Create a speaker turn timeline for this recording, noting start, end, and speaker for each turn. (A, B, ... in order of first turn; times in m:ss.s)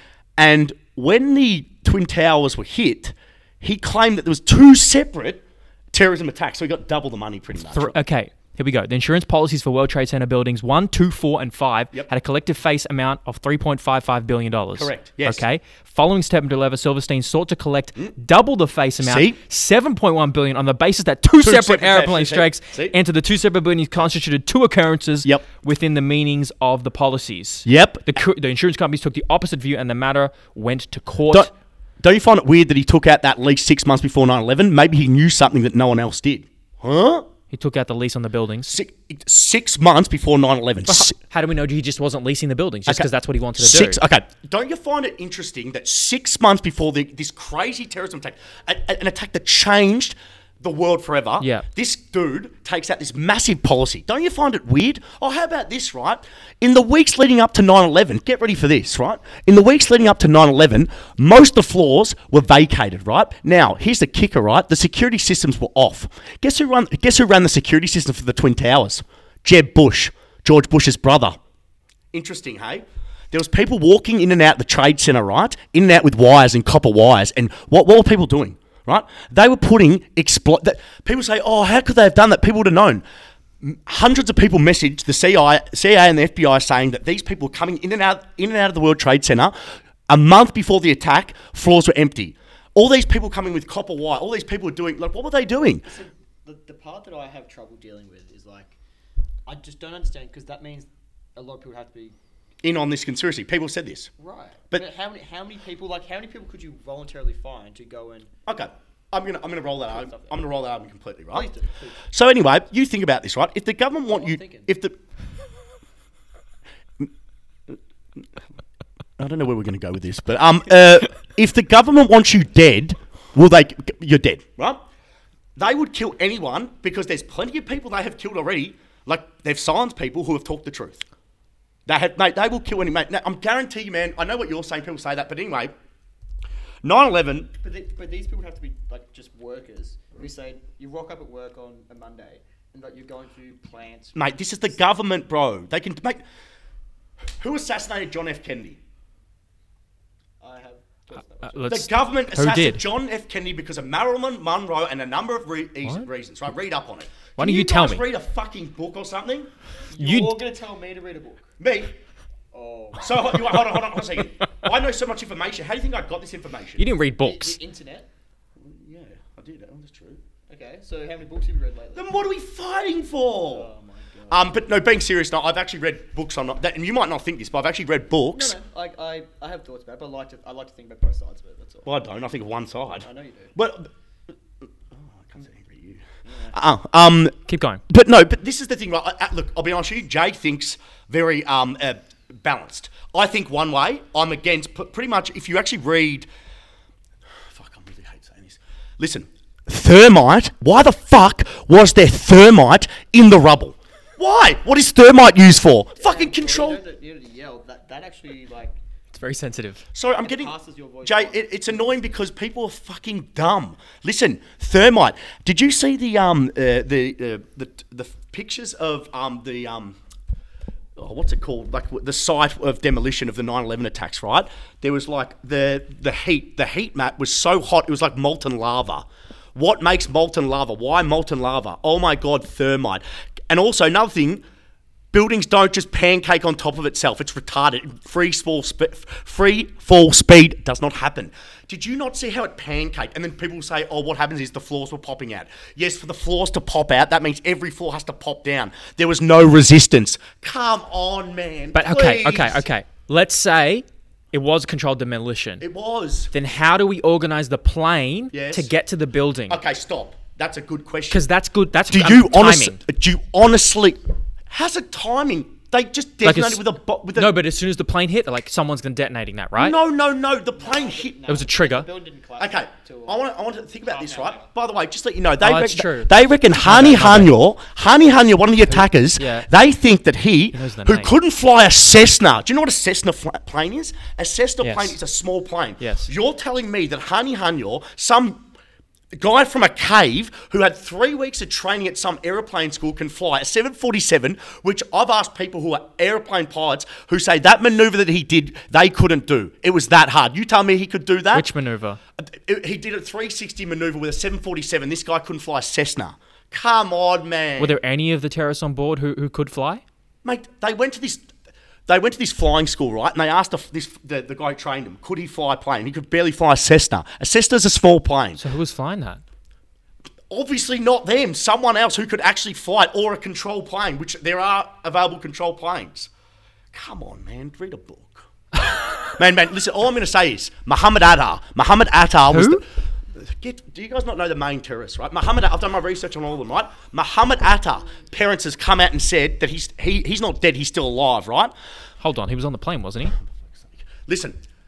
0:00.4-0:08.0 A
0:07.7-0:31.5 B
0:14.8-0:15.4 A
0:19.0-0:19.4 A
0:21.4-0:23.0 A
0:27.6-0:28.2 A
0:31.3-0:37.3 A
0:37.5-0:38.7 B
0:38.7-0:41.1 A
0:40.9-0:44.0 B
0:42.9-1:11.4 A
0:51.4-0:51.6 B
1:12.1-1:23.0 A
1:23.6-1:29.6 A
1:30.1-1:35.9 A
1:35.8-1:38.8 C
1:39.4-1:42.2 C
1:42.6-1:44.1 A
1:44.2-1:48.3 C
1:48.5-1:51.5 A
1:49.9-1:50.5 C
1:51.3-1:52.1 C
1:52.1-1:55.0 A
1:54.1-1:54.7 C
1:59.2-2:04.8 A
2:05.6-2:11.0 A
2:11.8-2:15.7 A
2:16.8-2:17.5 A
2:17.6-2:24.3 C
2:24.1-2:26.2 A
2:27.4-2:28.8 A
2:30.4-2:31.8 C
2:31.4-2:32.8 B
2:31.7-2:39.5 A
2:37.4-2:38.0 B
2:39.9-2:41.5 C
2:40.0-2:40.4 B
2:41.6-2:41.9 A
2:42.5-2:43.7 C
2:43.0-2:46.8 A
2:46.8-2:47.6 B
2:47.2-2:48.1 C
2:48.6-2:50.2 A
2:50.5-2:52.3 C
2:51.9-2:53.7 A
2:53.5-2:54.6 C
2:54.3-2:58.6 A
2:58.3-3:01.9 C
3:01.8-3:03.9 A
3:03.0-3:03.5 C
3:04.9-3:16.3 A
3:06.2-3:06.6 C
3:07.5-3:07.8 B
3:17.5-3:26.8 A
3:26.0-3:28.8 C
3:29.1-3:29.8 B
3:29.9-3:40.0 A
3:30.2-3:32.1 C
3:41.0-3:49.0 A
3:49.5-3:54.4 A
3:55.1-4:12.6 A
4:11.7-4:15.6 B
4:15.6-4:16.3 A
4:16.3-4:19.6 B
4:18.3-4:18.7 A
4:19.5-4:21.2 A
4:21.1-4:22.8 B
4:21.9-4:27.4 A
4:26.2-4:29.7 B
4:29.6-4:31.2 A
4:30.6-4:33.2 C
4:31.3-4:31.9 B
4:32.4-4:48.4 A
4:33.8-4:34.5 C
4:35.4-4:37.3 B
4:38.6-4:39.5 B
4:40.5-4:41.1 B
4:44.6-4:45.0 B
4:45.8-4:46.1 B
4:49.1-5:01.5 A
5:01.3-5:02.0 B
5:02.2-5:07.8 A
5:07.6-5:09.8 B
5:10.2-5:11.2 A
5:11.9-5:18.4 A
5:18.4-5:19.2 B
5:20.3-5:26.1 A
5:26.7-5:28.3 A
5:29.0-5:41.5 A
5:32.3-5:32.6 B
5:42.0-5:43.2 B
5:43.5-5:44.4 A